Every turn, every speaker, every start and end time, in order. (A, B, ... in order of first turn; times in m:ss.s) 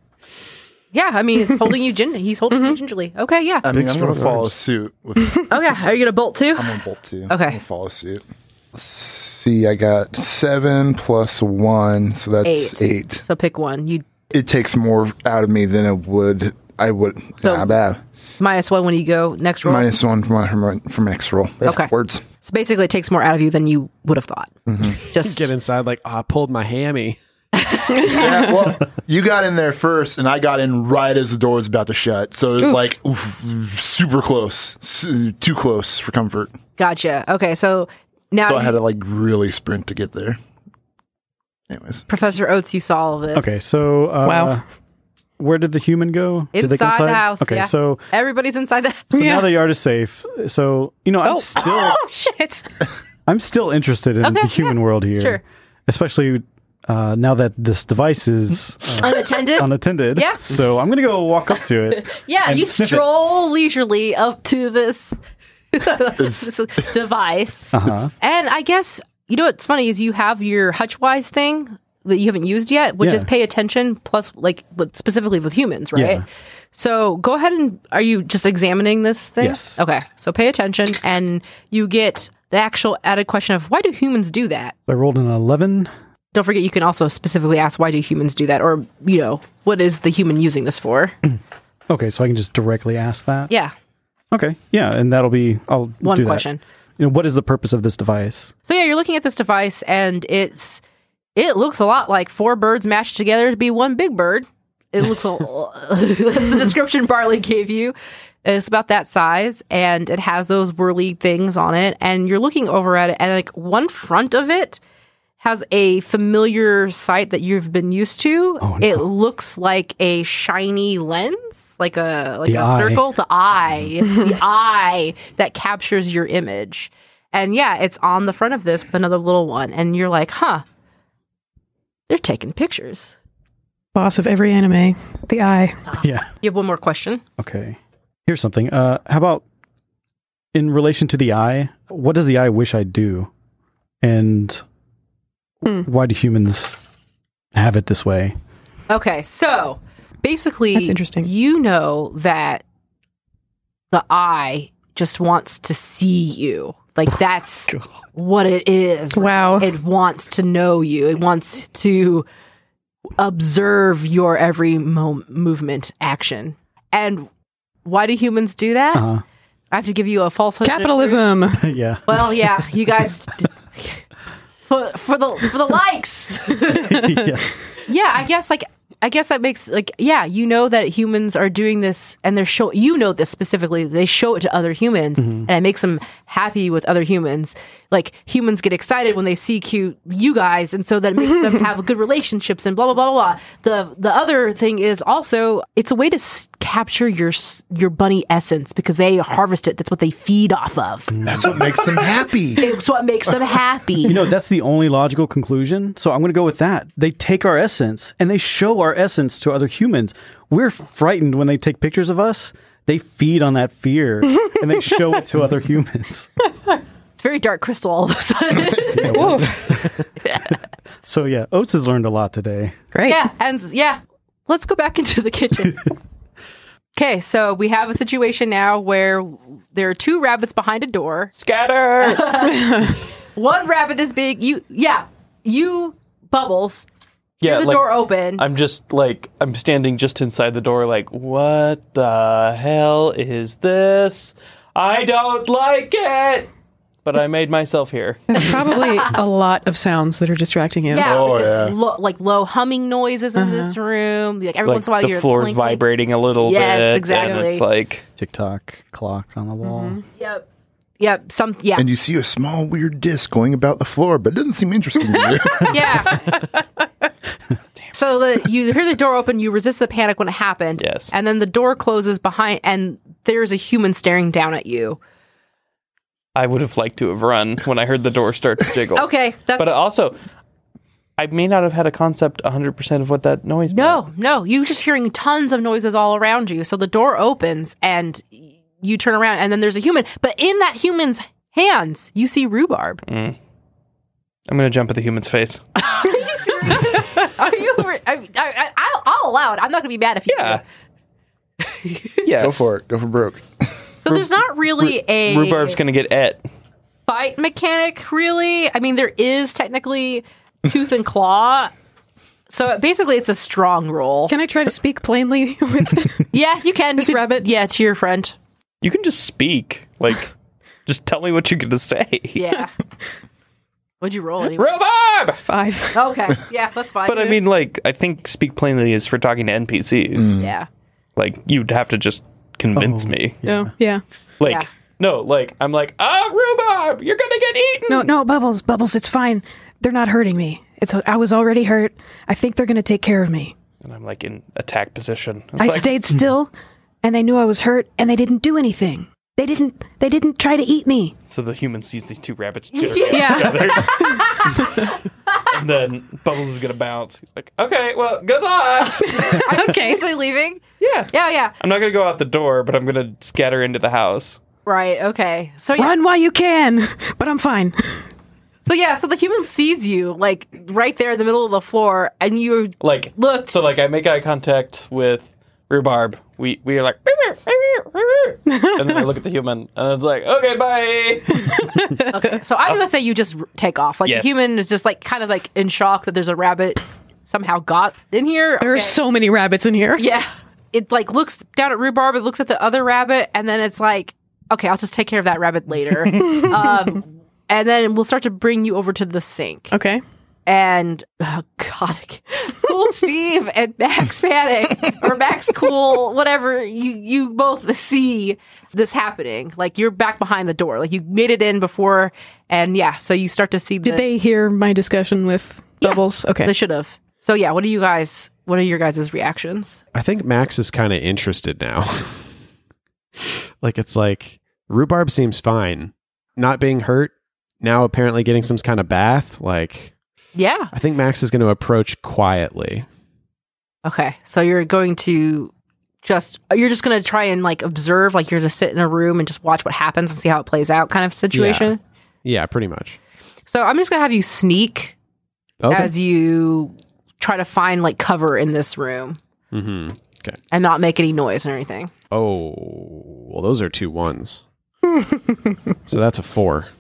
0:00.9-0:03.7 A
0:03.6-0:05.6 B
0:03.8-0:04.5 C
0:05.5-0:07.6 A
0:06.6-0:08.2 B
0:08.7-0:13.2 B
0:12.4-0:14.0 A
0:14.3-0:18.0 B
0:17.4-0:17.7 A
0:18.4-0:19.9 A
0:19.6-0:22.2 B
0:21.6-0:25.5 A
0:24.7-0:25.0 B
0:25.2-0:27.2 C
0:27.5-0:28.4 A
0:28.1-0:36.5 B
0:36.8-0:38.8 A
0:38.4-0:40.4 B
0:41.7-0:42.0 B
0:42.1-0:43.6 A
0:43.3-0:44.6 D
0:44.2-0:44.6 E
0:45.4-0:48.0 D
0:46.5-0:49.1 A
0:49.1-0:49.5 E
0:49.1-0:52.0 D
0:51.2-0:52.8 E
0:53.3-1:03.0 D
0:54.2-0:55.4 A
0:59.0-1:00.5 A
1:02.0-1:05.2 A
1:05.7-1:24.7 A
1:06.2-1:06.5 B
1:07.7-1:08.1 D
1:13.0-1:13.3 D
1:15.9-1:16.2 D
1:19.4-1:19.8 D
1:24.9-1:25.9 D
1:26.3-1:31.1 A
1:31.9-1:33.5 D
1:34.3-1:36.4 D
1:36.0-1:36.6 A
1:37.0-1:38.5 D
1:38.6-1:40.8 A
1:41.4-1:54.8 A
1:55.4-2:10.6 A
1:58.6-1:59.0 D
2:02.4-2:03.0 D
2:12.1-2:13.1 A
2:13.9-2:15.8 E
2:15.9-2:17.2 A
2:16.0-2:16.3 D
2:17.4-2:19.4 D
2:20.5-2:23.3 D
2:24.0-2:24.6 D
2:25.6-2:26.8 D
2:27.5-2:28.3 D
2:28.9-2:32.6 A
2:30.7-2:31.3 E
2:33.9-2:42.2 A
2:39.1-2:39.7 E
2:43.2-2:47.3 A
2:47.8-2:49.1 A
2:48.9-2:49.2 D
2:49.7-2:51.2 A
2:50.6-2:51.7 E
2:51.6-2:52.6 D
2:52.0-2:54.0 A
2:54.7-2:57.1 A
2:56.7-2:57.6 D
2:57.8-3:21.2 A
3:05.2-3:05.5 D
3:21.1-3:21.5 D
3:21.2-3:22.7 B
3:22.6-3:24.2 A
3:24.0-3:36.3 D
3:37.2-3:39.5 A
3:38.9-3:39.8 D
3:39.0-3:39.6 E
3:41.0-3:42.8 D
3:42.9-3:43.2 E
3:43.0-3:45.9 A
3:46.9-3:51.3 A
3:51.4-3:52.5 F
3:52.0-3:56.9 A
3:52.5-3:52.9 E
3:57.4-3:58.4 A
3:57.4-4:06.5 F
4:07.0-4:08.6 F
4:08.3-4:11.1 E
4:10.9-4:15.8 A
4:11.0-4:11.7 B
4:13.4-4:13.7 E
4:14.6-4:18.0 F
4:16.4-4:17.6 A
4:18.2-4:20.0 D
4:19.6-4:20.0 E
4:20.2-4:20.4 A
4:21.0-4:21.8 A
4:21.8-4:26.2 B
4:25.6-4:26.3 A
4:27.9-4:35.0 A
4:30.8-4:31.1 F
4:36.3-4:40.2 F
4:38.9-4:39.7 A
4:41.2-4:44.0 F
4:43.7-4:53.0 A
4:53.0-4:53.4 F
4:54.5-4:55.6 F
4:55.8-5:00.6 A
5:00.3-5:00.6 F
5:01.7-5:02.2 A
5:02.2-5:02.7 F
5:02.4-5:03.4 B
5:04.0-5:05.8 A
5:04.1-5:06.4 F
5:07.1-5:11.7 A
5:12.5-5:14.3 A
5:14.3-5:16.3 E
5:16.3-5:18.3 A
5:17.0-5:17.5 E
5:18.8-5:20.3 F
5:20.8-5:22.4 F
5:22.4-5:22.7 A
5:24.0-5:24.7 A
5:24.6-5:25.4 F
5:25.4-5:26.1 E
5:25.9-5:27.4 A
5:27.0-5:30.4 F
5:30.2-5:30.5 B
5:30.3-5:30.7 A
5:31.2-5:33.4 F
5:32.7-5:33.7 D
5:33.4-5:34.0 E
5:34.4-5:38.1 F
5:37.9-5:43.5 E
5:43.8-5:45.9 F
5:45.6-5:46.5 E
5:47.0-5:51.2 E
5:51.3-5:54.8 F
5:52.7-5:54.9 A
5:53.1-5:54.7 E
5:55.4-5:59.6 F
5:59.0-6:01.5 A
5:59.0-6:00.1 E
6:00.8-6:04.4 F
6:04.6-6:06.0 A
6:05.8-6:08.1 E
6:08.6-6:13.6 A
6:12.8-6:21.8 F
6:18.5-6:19.1 E
6:21.4-6:22.3 E
6:22.1-6:29.0 A
6:28.6-6:30.0 E
6:30.0-6:39.7 A
6:39.7-6:40.0 E
6:40.5-6:54.0 A
6:53.8-6:56.5 E
6:55.8-6:59.8 A
6:59.9-7:02.3 C
7:03.2-7:09.9 C
7:10.4-7:10.7 A
7:10.7-7:12.9 C
7:13.8-7:15.5 A
7:16.0-7:21.8 A
7:21.3-7:23.0 C
7:23.5-7:24.9 A
7:25.6-7:25.9 C
7:25.7-7:29.2 A
7:29.5-7:30.4 C
7:30.5-7:31.9 A
7:32.1-7:34.4 C
7:35.9-7:36.7 C